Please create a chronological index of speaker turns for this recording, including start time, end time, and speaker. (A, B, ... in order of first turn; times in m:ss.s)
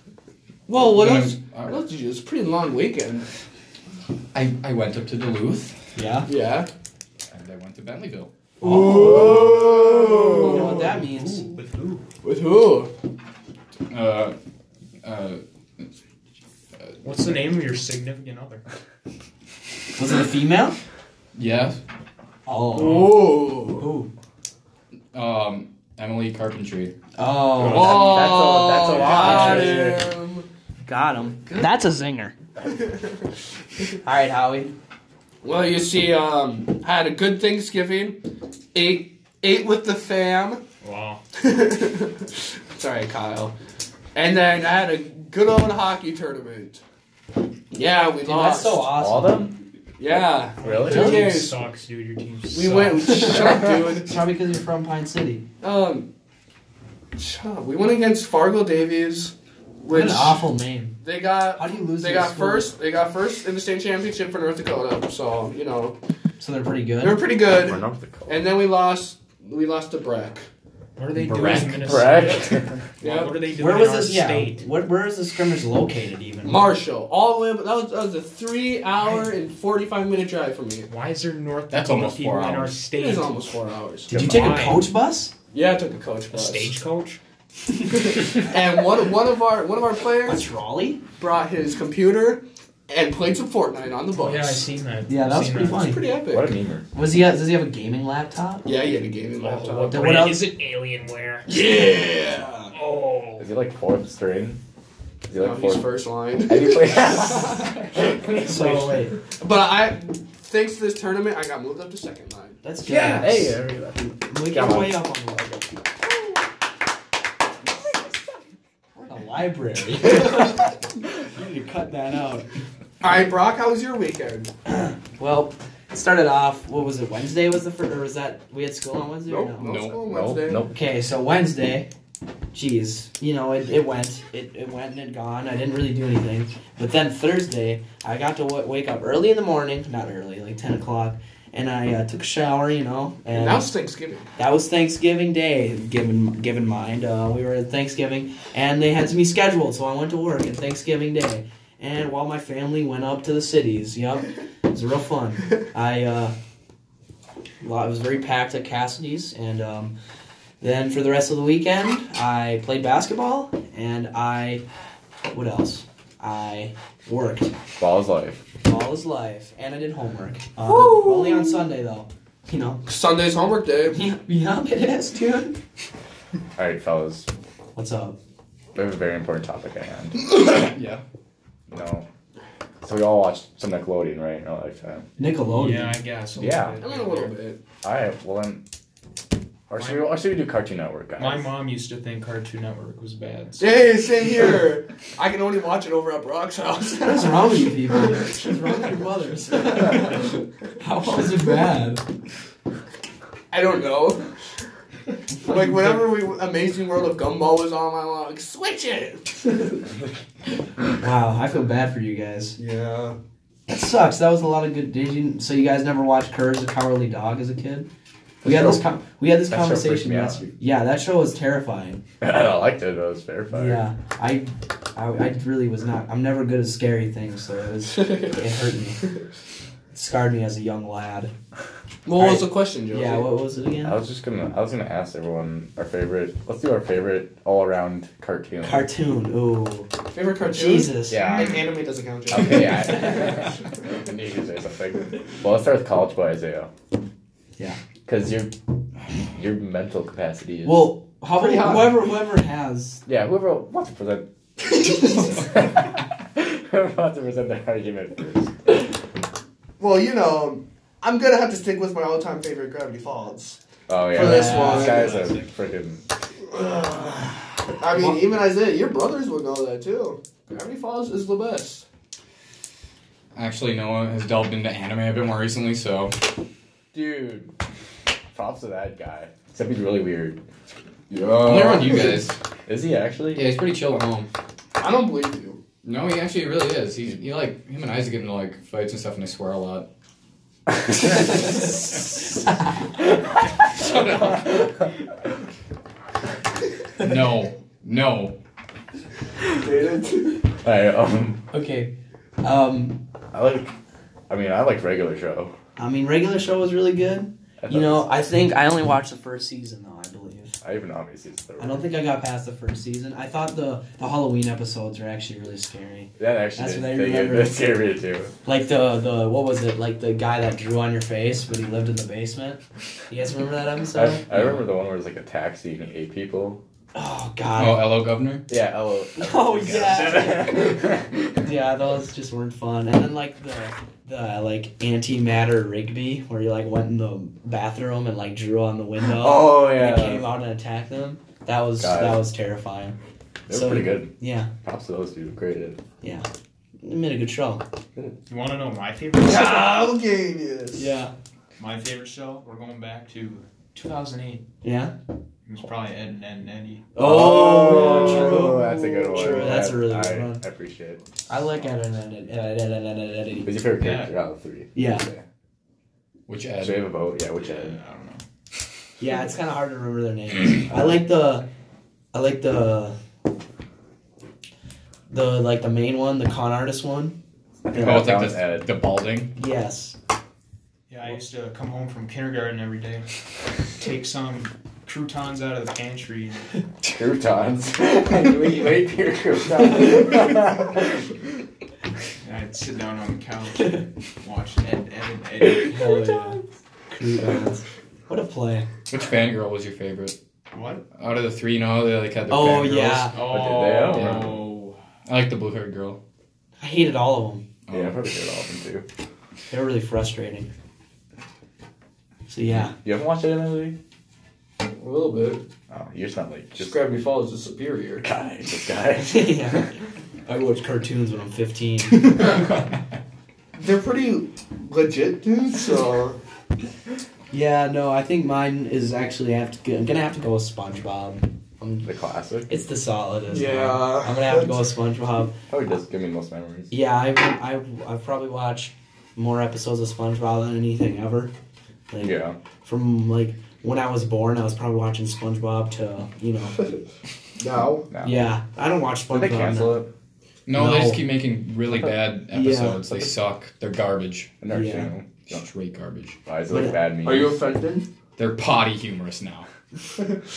0:00.7-0:03.3 A
0:00.7-0:01.8 B
0:04.3-0:05.8 B
0:05.9-0:06.3 C
0:06.2-0:06.7 A
0:07.3-0:08.3 B
0:08.6-0:09.5 C
0:08.6-0:11.0 A
0:09.2-0:12.0 D
0:10.3-0:11.5 C
0:12.2-0:12.9 A
0:13.9-0:14.3 B
0:15.0-0:15.4 B
0:17.0-0:18.6 D
0:20.0-0:20.8 C
0:21.3-0:21.8 B
0:22.4-0:24.1 C
0:22.7-0:23.9 A
0:25.1-0:26.9 B
0:27.2-0:29.9 C
0:27.6-0:30.4 A
0:27.6-0:28.0 B
0:27.6-0:30.0 E
0:30.8-0:32.3 C
0:32.6-0:33.1 A
0:34.0-0:34.7 C
0:35.4-0:38.2 A
0:38.7-0:40.6 A
0:40.8-0:41.2 D
0:41.3-0:43.5 A
0:44.1-0:46.8 A
0:47.7-0:48.9 A
0:48.2-0:49.5 C
0:48.9-0:49.6 E
0:50.0-0:51.6 A
0:50.1-0:51.2 E
0:50.6-0:53.2 D
0:51.0-0:51.2 C
0:52.5-0:54.1 A
0:53.1-0:55.4 C
0:55.6-0:56.1 A
0:57.2-1:00.5 A
0:59.9-1:01.0 C
1:01.0-1:06.0 A
1:01.5-1:02.7 C
1:06.4-1:07.2 C
1:07.0-1:10.5 A
1:07.5-1:08.5 E
1:11.0-1:14.6 D
1:11.2-1:12.8 E
1:11.3-1:11.8 B
1:13.0-1:13.4 A
1:13.6-1:16.6 C
1:16.4-1:20.9 A
1:20.9-1:23.3 D
1:21.7-1:22.8 B
1:22.9-1:24.1 A
1:24.1-1:25.3 C
1:24.1-1:24.9 D
1:25.5-1:26.7 A
1:26.3-1:27.2 D
1:27.9-1:30.4 A
1:30.2-1:31.0 C
1:31.2-1:34.7 A
1:34.1-1:35.9 D
1:35.1-1:36.1 C
1:35.7-1:36.5 A
1:36.3-1:36.8 E
1:36.9-1:38.7 C
1:38.6-1:40.1 A
1:39.5-1:41.5 D
1:39.9-1:40.5 C
1:41.4-1:42.7 A
1:42.7-1:43.5 D
1:43.4-1:44.6 E
1:45.3-1:45.9 E
1:45.3-1:47.9 A
1:46.4-1:48.3 E
1:48.4-1:48.8 D
1:48.4-1:49.1 C
1:49.3-1:52.6 A
1:52.6-1:55.8 C
1:52.8-1:55.0 E
1:59.0-2:02.5 C
2:03.0-2:04.5 A
2:04.7-2:09.7 C
2:09.2-2:10.6 A
2:09.6-2:10.0 B
2:10.0-2:10.8 E
2:10.7-2:11.9 C
2:12.5-2:23.7 C
2:23.3-2:24.3 A
2:24.4-2:36.3 C
2:37.6-2:39.9 C
2:40.6-2:44.6 C
2:45.3-2:47.5 C
2:47.8-2:48.4 E
2:48.6-2:52.8 C
2:50.6-2:51.6 A
2:52.8-2:54.1 A
2:53.9-2:55.6 C
2:56.6-2:57.3 E
2:57.7-2:58.2 C
2:58.7-3:00.5 E
3:00.4-3:01.0 B
3:01.7-3:02.0 E
3:02.8-3:05.0 E
3:05.2-3:06.0 C
3:05.5-3:07.3 D
3:06.4-3:06.8 E
3:06.8-3:07.6 A
3:07.8-3:08.6 E
3:09.7-3:11.5 E
3:09.8-3:10.1 D
3:11.2-3:13.8 D
3:13.6-3:19.0 A
3:17.0-3:22.0 C
3:19.6-3:20.3 A
3:23.5-3:24.3 A
3:25.4-3:29.6 A
3:25.5-3:26.0 C
3:31.0-3:32.6 C
3:32.6-3:33.2 A
3:33.7-3:37.9 C
3:38.4-3:38.8 E
3:38.4-3:42.0 C
3:39.5-3:40.5 E
3:42.2-3:43.8 E
3:43.5-3:49.0 C
3:49.9-3:51.3 C
3:52.0-3:53.3 A
3:52.2-3:54.0 C
3:53.8-3:58.9 E
3:58.6-3:59.9 C
4:00.1-4:03.4 A
4:00.4-4:01.3 C
4:01.1-4:01.6 E
4:02.3-4:06.7 E
4:08.0-4:08.5 E
4:09.3-4:10.9 E
4:10.6-4:13.0 C
4:11.3-4:12.0 A
4:13.0-4:14.3 E
4:14.9-4:18.8 E
4:19.8-4:23.6 A
4:23.9-4:26.0 E
4:24.1-4:25.1 A
4:24.2-4:25.5 D
4:24.2-4:24.8 C
4:26.5-4:27.3 A
4:27.8-4:31.8 A
4:33.3-4:36.2 B
4:36.9-4:37.5 E
4:38.3-4:40.4 E
4:41.1-4:42.4 B
4:41.4-4:42.0 A
4:42.6-4:43.5 E
4:43.3-4:44.3 B
4:44.8-4:45.6 A
4:45.8-4:49.9 B
4:53.9-4:54.4 A
4:57.0-4:58.4 B
4:59.5-5:00.4 A
5:00.6-5:01.4 E
5:01.5-5:03.0 C
5:03.3-5:03.7 E
5:04.3-5:05.5 E
5:05.8-5:10.5 C
5:07.6-5:08.2 E
5:10.6-5:11.9 E
5:11.6-5:17.6 C
5:16.2-5:18.3 E
5:18.4-5:24.3 C
5:23.9-5:26.6 E
5:26.9-5:28.0 C
5:27.6-5:28.5 B
5:28.5-5:31.1 E
5:29.2-5:43.0 C
5:39.0-5:40.3 E
5:41.8-5:42.2 E
5:43.5-5:45.8 E
5:43.5-5:44.5 C
5:46.0-5:46.3 C
5:46.8-5:47.6 C
5:48.3-5:49.8 D
5:49.2-5:50.9 A
5:50.7-5:51.1 C
5:51.6-5:54.4 D
5:54.6-5:54.9 C
5:55.4-5:56.9 D
5:56.9-6:00.4 C
5:57.0-6:01.0 E
5:57.7-5:58.4 A
6:01.3-6:03.6 C
6:03.4-6:05.2 E
6:03.8-6:04.1 D
6:04.7-6:05.1 C
6:06.3-6:06.9 B
6:06.6-6:07.8 E
6:07.3-6:08.2 D
6:09.0-6:11.4 C
6:12.1-6:13.0 C
6:15.1-6:17.2 C
6:17.6-6:18.7 E
6:17.7-6:18.1 C
6:17.7-6:19.3 B
6:19.4-6:20.0 C
6:20.9-6:23.1 D
6:23.8-6:26.5 D
6:26.8-6:31.0 E
6:32.2-6:36.4 D
6:35.6-6:36.4 C
6:36.9-6:38.7 C
6:38.9-6:40.1 B
6:40.5-6:40.8 D
6:40.9-6:43.2 B
6:42.3-6:43.2 C
6:43.1-6:44.8 D
6:43.2-6:44.4 E
6:43.9-6:44.5 B
6:45.0-6:46.0 B
6:46.6-6:47.4 C
6:47.7-6:48.0 B
6:47.7-6:48.8 E
6:49.5-6:50.5 C
6:52.3-6:52.7 C
6:52.5-6:53.8 E
6:54.6-6:55.4 A
6:55.7-6:56.8 E
6:56.6-6:58.1 A
6:58.0-6:59.7 E
6:59.0-6:59.7 C
7:00.2-7:02.3 C
7:03.5-7:06.2 A
7:07.3-7:11.9 C
7:11.8-7:12.5 E
7:12.5-7:15.3 C
7:13.3-7:14.6 A
7:15.5-7:16.7 E
7:16.7-7:21.3 C
7:21.9-7:26.6 C
7:22.0-7:22.4 E
7:27.4-7:27.9 A
7:27.9-7:28.3 E
7:28.0-7:29.8 C
7:29.1-7:29.9 E
7:30.4-7:34.4 B
7:30.5-7:31.0 C
7:32.3-7:32.8 C
7:34.4-7:35.4 E
7:34.5-7:34.9 C
7:35.2-7:36.2 B
7:36.2-7:37.4 E
7:36.5-7:36.8 C
7:37.0-7:37.9 A
7:38.2-7:39.5 B